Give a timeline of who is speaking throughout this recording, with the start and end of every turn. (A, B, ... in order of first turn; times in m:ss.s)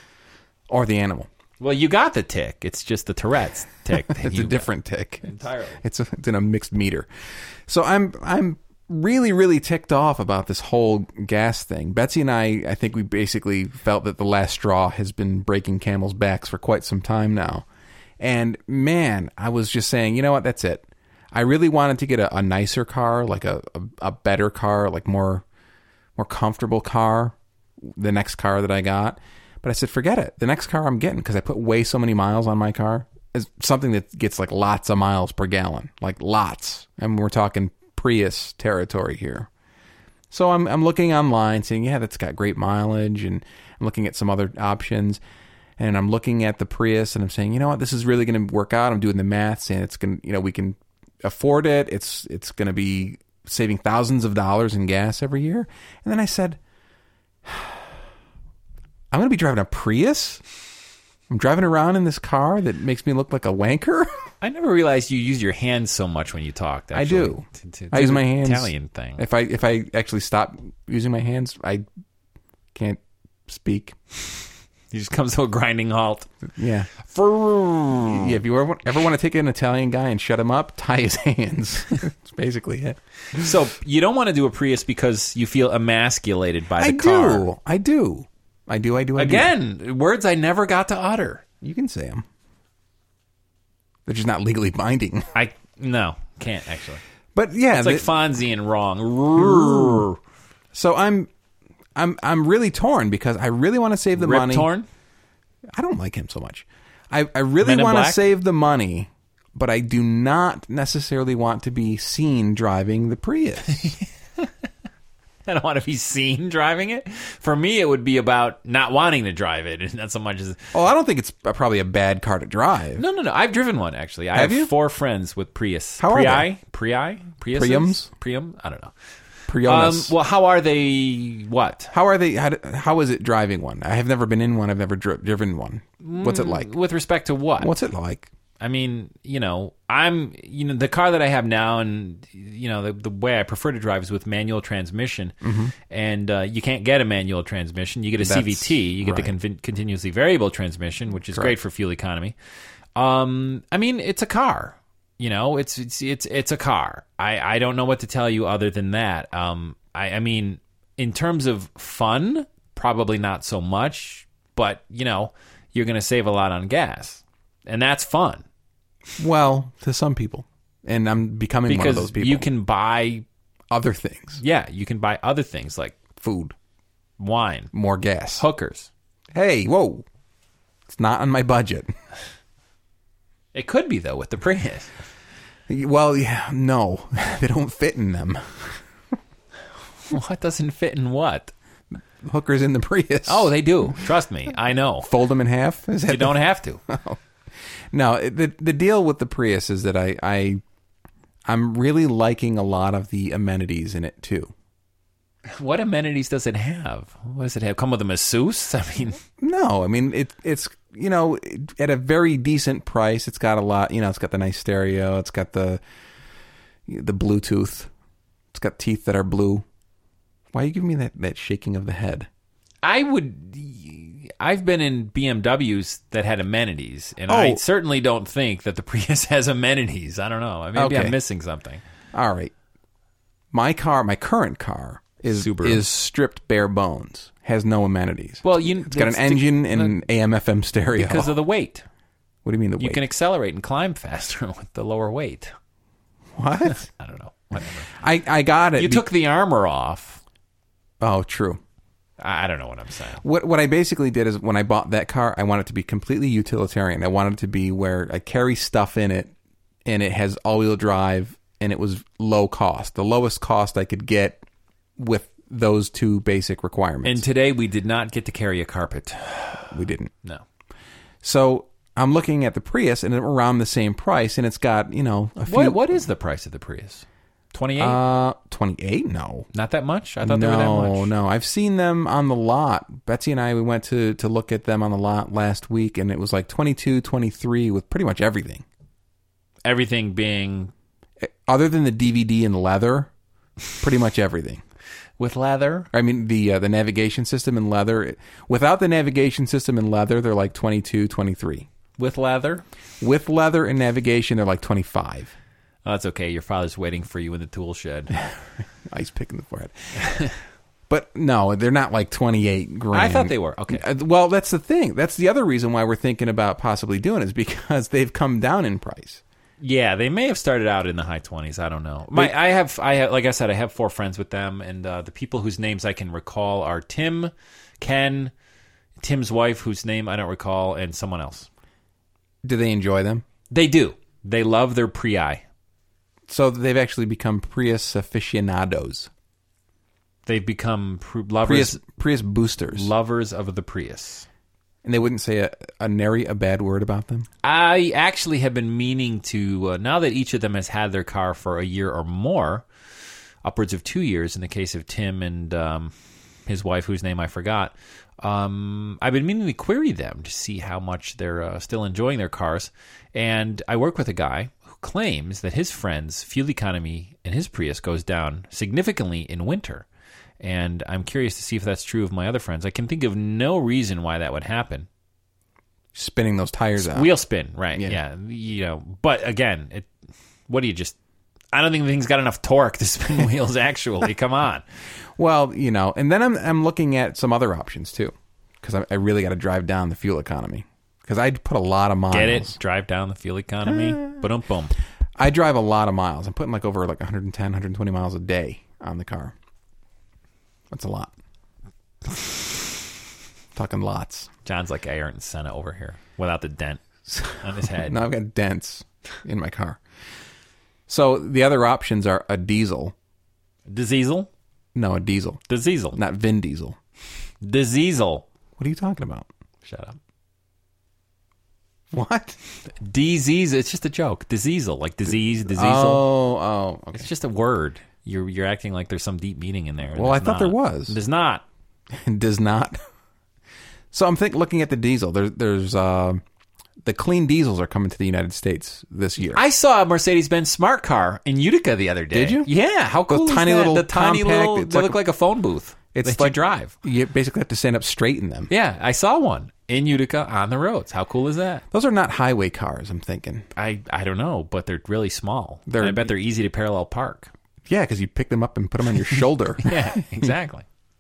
0:00.7-0:01.3 A
0:01.6-0:04.7 B
0:04.0-0:07.1 A
0:05.2-0:05.8 B
0:07.7-0:17.6 A
0:18.2-0:25.4 A
0:26.2-0:39.5 A
0:40.3-0:45.2 A
0:45.8-0:56.6 A
0:57.4-0:57.9 A
0:59.1-1:00.4 A
1:01.3-1:04.2 A
1:04.4-1:09.2 B
1:06.9-1:11.8 A
1:12.7-1:14.0 A
1:14.9-1:16.3 B
1:16.6-1:16.9 A
1:17.0-1:18.4 B
1:18.0-1:23.0 A
1:23.3-1:27.5 B
1:26.8-1:29.5 A
1:29.2-1:31.4 B
1:31.6-1:32.2 A
1:34.0-1:35.3 A
1:35.3-1:37.0 B
1:37.3-1:38.1 A
1:37.7-1:40.2 B
1:39.4-1:40.0 A
1:40.7-1:41.3 A
1:41.9-1:44.7 A
1:44.2-1:44.9 B
1:45.7-1:53.9 A
1:47.6-1:48.2 B
1:53.8-1:54.5 B
1:55.4-2:00.7 B
2:00.7-2:03.0 A
2:03.0-2:08.9 B
2:04.3-2:04.7 A
2:06.0-2:06.5 A
2:07.5-2:08.1 A
2:09.5-2:10.1 A
2:09.6-2:11.9 B
2:11.9-2:16.7 A
2:16.0-2:17.7 B
2:17.6-2:18.3 A
2:18.6-2:25.4 B
2:25.4-2:25.7 A
2:25.9-2:32.4 B
2:28.2-2:29.3 A
2:31.3-2:31.5 A
2:33.0-2:48.4 B
2:49.2-2:52.5 A
2:51.7-2:53.2 B
2:53.7-2:54.4 A
2:54.4-2:56.0 B
2:56.1-2:56.5 A
2:57.2-2:57.7 B
2:57.7-2:58.4 A
2:58.4-2:58.9 B
2:59.3-3:00.0 A
3:00.9-3:01.9 A
3:03.5-3:04.9 B
3:05.7-3:08.8 A
3:10.1-3:11.5 B
3:12.2-3:13.5 A
3:13.2-3:15.1 B
3:15.0-3:17.2 A
3:16.1-3:16.8 B
3:17.9-3:20.6 A
3:21.4-3:24.5 A
3:25.5-3:29.2 B
3:29.4-3:35.8 A
3:36.9-3:37.9 A
3:38.5-3:39.6 A
3:40.5-3:42.3 A
3:42.8-3:51.8 B
3:47.3-3:47.6 A
3:50.7-3:51.2 A
3:52.1-3:52.5 A
3:53.5-4:01.3 A
3:55.2-3:55.8 B
3:58.4-4:00.0 B
4:00.9-4:01.8 B
4:02.4-4:03.0 A
4:02.8-4:05.5 B
4:06.4-4:06.9 A
4:06.7-4:07.9 B
4:07.9-4:09.1 A
4:08.8-4:10.2 B
4:11.0-4:11.6 A
4:12.2-4:13.2 B
4:13.2-4:19.3 A
4:19.8-4:24.4 A
4:25.0-4:27.2 A
4:27.0-4:30.4 B
4:29.7-4:30.1 A
4:31.2-4:36.0 A
4:35.4-4:38.0 B
4:37.8-4:39.5 A
4:39.5-4:41.1 B
4:40.2-4:48.6 A
4:49.6-4:50.7 B
4:51.2-4:53.1 A
4:53.8-4:54.6 A
4:55.2-4:55.9 B
4:55.9-5:01.7 A
5:02.0-5:02.6 B
5:03.0-5:05.3 A
5:05.8-5:08.2 B
5:08.2-5:10.2 A
5:10.0-5:10.3 B
5:10.9-5:19.2 A
5:12.9-5:13.8 B
5:19.6-5:28.3 B
5:29.0-5:31.5 B
5:32.4-5:33.2 A
5:33.5-5:35.4 B
5:36.3-5:39.1 A
5:40.2-5:41.8 B
5:41.4-5:42.9 A
5:42.7-5:44.3 B
5:44.8-5:47.3 A
5:47.4-5:52.6 B
5:53.4-5:55.9 B
5:56.5-6:09.8 B
6:10.4-6:14.9 B
6:15.9-6:17.1 A
6:16.8-6:19.9 B
6:20.5-6:21.0 B
6:21.5-6:24.6 B
6:25.2-6:32.6 A
6:32.1-6:34.7 B
6:33.7-6:34.2 A
6:35.2-6:39.3 A
6:40.7-6:41.1 A
6:43.5-6:44.3 A
6:44.4-6:48.0 B
6:47.1-6:49.8 A
6:50.9-6:52.9 A
6:53.7-6:54.3 B
6:54.7-6:55.4 A
6:55.5-6:56.0 B
6:55.9-6:56.8 A
6:57.4-6:58.2 B
6:58.6-6:59.3 A
6:59.6-7:00.0 B
7:01.9-7:02.4 A
7:02.8-7:06.0 B
7:05.5-7:07.1 A
7:06.9-7:11.4 B
7:09.9-7:11.0 A
7:11.9-7:12.8 A
7:13.9-7:16.2 A
7:16.8-7:19.4 A
7:19.2-7:26.7 B
7:22.1-7:22.5 A
7:23.1-7:25.0 A
7:25.9-7:28.5 A
7:28.5-7:31.6 B
7:31.7-7:33.4 A
7:33.6-7:37.3 B
7:35.7-7:36.1 A
7:37.6-7:40.3 A
7:39.6-7:40.6 B